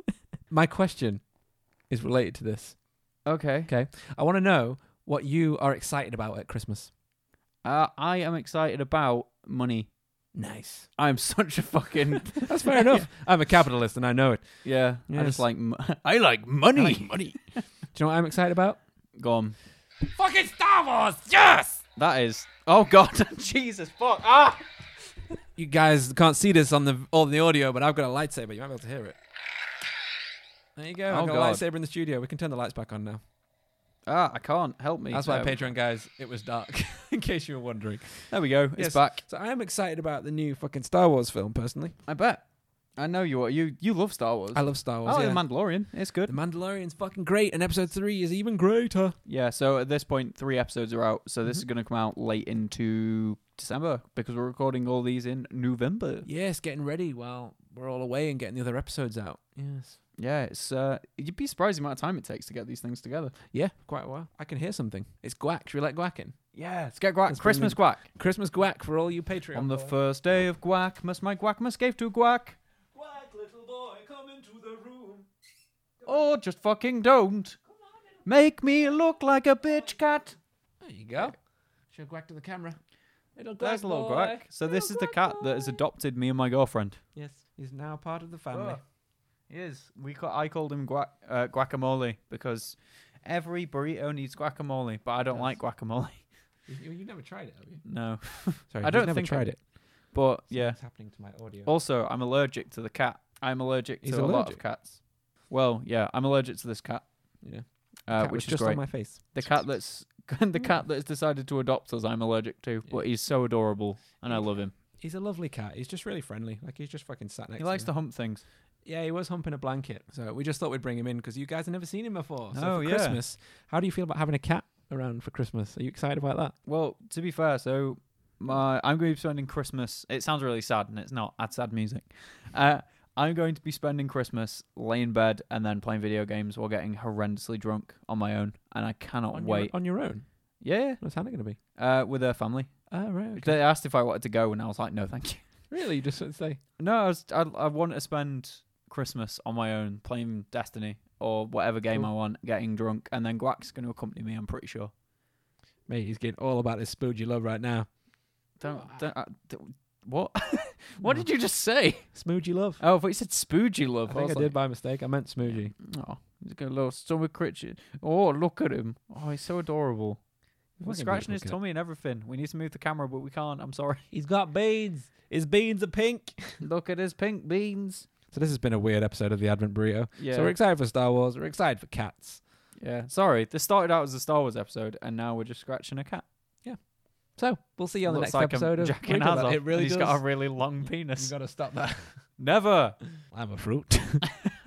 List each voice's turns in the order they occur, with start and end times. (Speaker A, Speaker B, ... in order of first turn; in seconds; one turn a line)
Speaker A: 0.5-1.3
Speaker A: 1.8-2.8
Speaker B: 3.2-3.7
Speaker A: 3.6-6.9
Speaker B: 7.6-9.9
Speaker A: 10.3-10.9
Speaker B: 10.9-13.1
Speaker A: 12.4-15.4
Speaker B: 14.6-17.6
Speaker A: 16.7-17.1
Speaker A: 17.9-18.8
Speaker B: 19.1-19.6
Speaker A: 20.0-21.8
Speaker B: 21.9-24.7
Speaker A: 25.6-29.1
Speaker A: 30.8-33.2
Speaker B: 31.1-31.6
Speaker B: 34.0-35.6
Speaker A: 35.1-42.0
Speaker B: 38.3-39.2
Speaker B: 42.0-42.4
Speaker B: 42.9-46.3
Speaker A: 44.5-49.2
Speaker B: 49.2-56.3
Speaker A: 56.2-60.0
Speaker B: 60.2-63.3
Speaker A: 63.5-70.0
Speaker B: 66.6-68.1
Speaker B: 69.5-72.6
Speaker A: 72.9-75.3
Speaker B: 76.0-77.6
Speaker B: 78.2-80.4
Speaker A: 80.8-85.8
Speaker B: 83.6-87.0
Speaker A: 87.1-88.8
Speaker B: 88.5-88.8
Speaker B: 89.4-96.3
Speaker A: 95.3-95.6
Speaker A: 96.7-99.7
Speaker B: 97.8-114.7
Speaker A: 100.4-101.7
Speaker A: 104.0-104.7
Speaker A: 107.4-109.3
Speaker A: 114.2-118.0
Speaker B: 117.6-118.4
Speaker A: 118.8-126.5
Speaker B: 122.5-123.2
Speaker B: 126.7-145.7
Speaker A: 139.3-141.6
Speaker A: 142.9-143.6
Speaker A: 145.7-146.6
Speaker B: 146.8-154.9
Speaker A: 155.8-158.0
Speaker A: 158.5-159.1
Speaker B: 158.6-162.1
Speaker A: 161.0-161.3
Speaker A: 162.1-162.8
Speaker B: 162.8-174.1
Speaker A: 164.0-165.7
Speaker A: 170.8-171.6
Speaker A: 174.1-176.6
Speaker B: 176.6-178.1
Speaker A: 178.3-182.4
Speaker B: 180.2-180.6
Speaker B: 182.8-186.3
Speaker A: 186.6-192.4
Speaker B: 188.0-191.4
Speaker B: 192.4-193.2
Speaker A: 193.2-194.3